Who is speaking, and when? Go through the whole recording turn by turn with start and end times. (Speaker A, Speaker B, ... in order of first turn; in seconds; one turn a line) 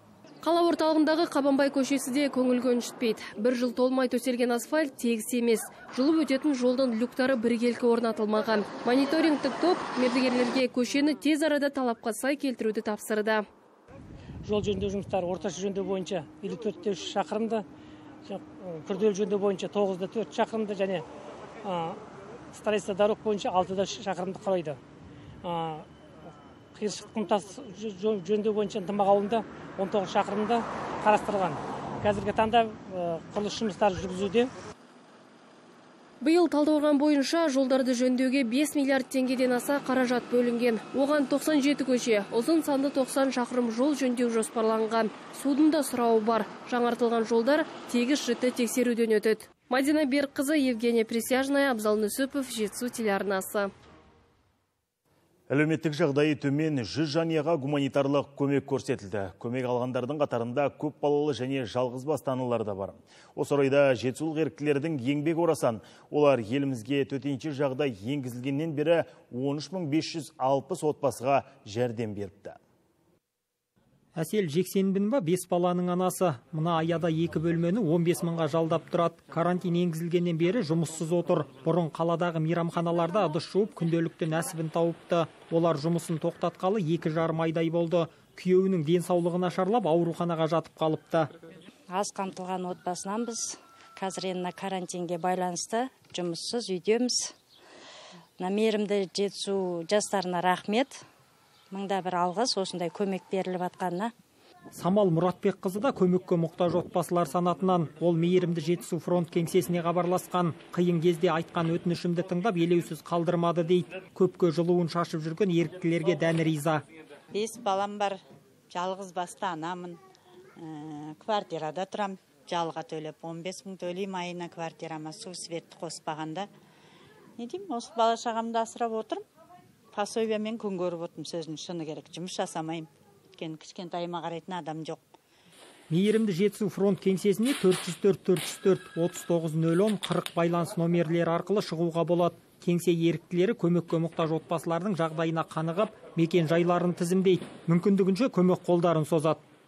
Speaker A: 0.4-13.4
Speaker B: 14.4-17.6
Speaker B: 18.2-21.0
Speaker B: 21.6-22.0
Speaker B: 22.5-24.8
Speaker B: 25.4-25.9
Speaker B: 26.8-34.5
Speaker A: 36.2-53.7
Speaker C: 55.5-72.6
Speaker D: 74.2-91.3
Speaker E: 91.9-97.3
Speaker E: 98.4-101.0
Speaker E: 101.7-104.1
Speaker D: 104.8-116.8
Speaker F: 117.3-118.2
Speaker F: 118.7-120.0
Speaker F: 120.6-126.5
Speaker F: 127.4-129.2
Speaker F: 129.9-135.0
Speaker D: 135.9-149.4